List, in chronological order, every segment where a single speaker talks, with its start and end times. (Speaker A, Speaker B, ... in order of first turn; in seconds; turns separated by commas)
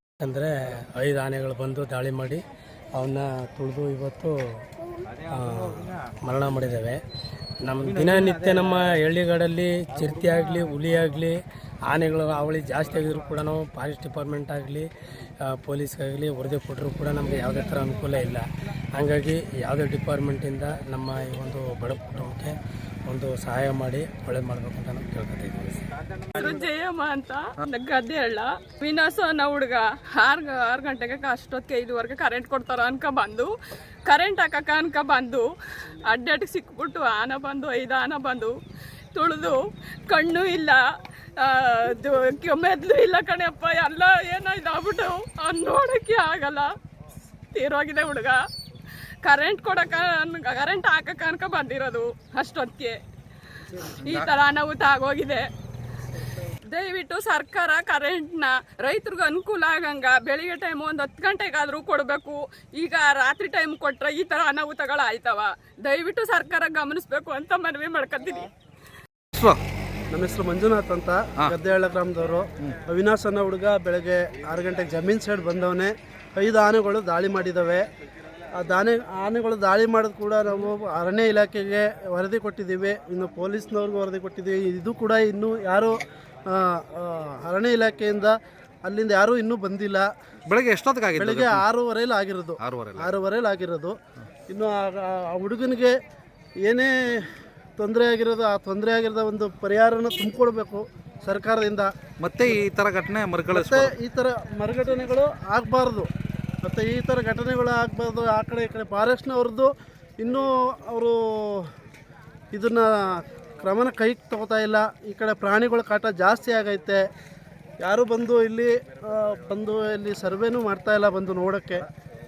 Speaker A: 0.2-2.4, Speaker A: 3.0-4.3, Speaker A: 5.3-7.0, Speaker A: 7.7-11.3, Speaker A: 11.9-14.9, Speaker A: 15.5-18.4, Speaker A: 19.0-22.5, Speaker A: 23.1-25.8, Speaker B: 26.4-33.5, Speaker B: 34.1-35.5, Speaker B: 36.1-38.5, Speaker B: 39.2-39.6, Speaker B: 40.1-40.8, Speaker B: 41.4-46.7, Speaker B: 47.5-48.4, Speaker B: 49.2-53.0, Speaker B: 53.8-55.4, Speaker B: 56.7-68.5, Speaker C: 70.1-77.9, Speaker C: 78.6-90.1, Speaker D: 90.5-91.7, Speaker C: 91.2-93.9, Speaker D: 92.6-93.2, Speaker C: 94.5-96.0, Speaker C: 96.6-102.6, Speaker D: 102.2-103.9, Speaker C: 103.5-106.1, Speaker C: 106.6-111.7, Speaker C: 112.5-117.0, Speaker C: 117.8-121.9